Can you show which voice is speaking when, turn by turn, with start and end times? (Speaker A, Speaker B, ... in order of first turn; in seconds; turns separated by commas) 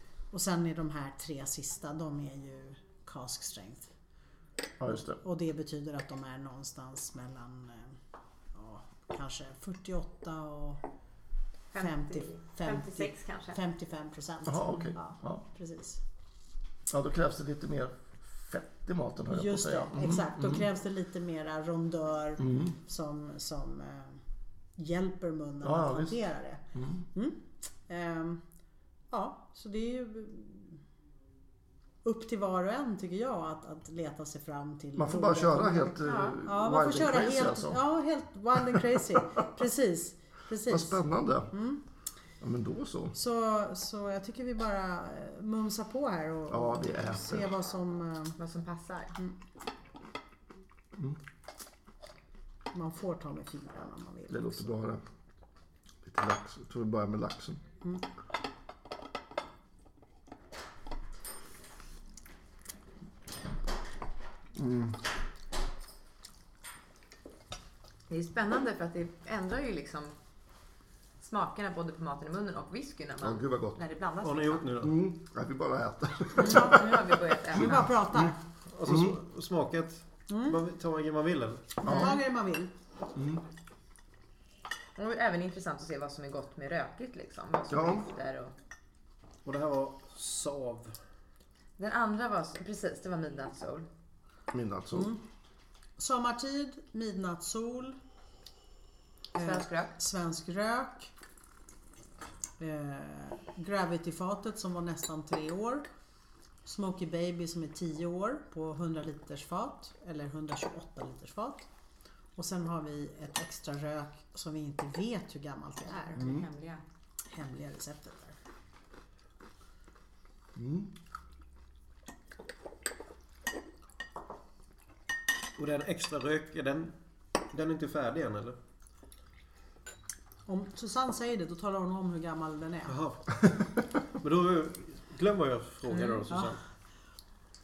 Speaker A: 0.3-3.9, Speaker B: 4.8-5.2, Speaker A: 5.2-8.0, Speaker A: 8.5-10.8, Speaker C: 11.7-13.6, Speaker A: 11.7-16.0, Speaker B: 14.4-15.4, Speaker B: 16.9-20.7, Speaker A: 19.3-24.2, Speaker B: 22.4-22.7, Speaker A: 24.8-26.6, Speaker B: 25.6-27.1, Speaker A: 27.1-28.4, Speaker A: 29.1-30.8, Speaker A: 32.0-41.8, Speaker B: 35.0-37.8, Speaker C: 36.0-36.4, Speaker B: 38.6-39.2, Speaker B: 40.7-41.5, Speaker B: 42.4-43.2, Speaker A: 43.1-48.4, Speaker B: 46.5-47.5, Speaker C: 48.4-49.2, Speaker B: 51.0-51.2, Speaker A: 52.7-54.7, Speaker B: 54.3-55.0, Speaker B: 56.0-57.6, Speaker B: 64.5-65.0, Speaker C: 68.1-70.2, Speaker C: 71.2-74.7, Speaker B: 73.2-73.8, Speaker D: 74.2-75.0, Speaker B: 74.8-78.3, Speaker C: 76.4-77.9, Speaker A: 76.4-76.9, Speaker A: 77.5-78.4, Speaker D: 78.7-81.7, Speaker B: 78.8-79.2, Speaker A: 80.3-80.6, Speaker A: 81.8-82.7, Speaker B: 81.8-82.2, Speaker C: 81.9-82.2, Speaker B: 83.1-83.4, Speaker C: 85.0-88.5, Speaker B: 87.7-88.1, Speaker D: 89.5-90.9, Speaker C: 91.8-93.9, Speaker B: 94.5-95.1, Speaker A: 94.9-95.2, Speaker A: 96.0-98.0, Speaker C: 99.3-99.9, Speaker A: 99.3-101.1, Speaker A: 102.6-105.9, Speaker A: 106.6-111.7, Speaker A: 112.4-116.3, Speaker C: 115.9-116.8, Speaker B: 116.2-116.5, Speaker A: 117.3-118.4, Speaker B: 120.5-120.9, Speaker D: 125.6-128.6, Speaker A: 130.5-133.0, Speaker D: 132.9-133.5, Speaker D: 134.2-136.6, Speaker C: 135.9-136.2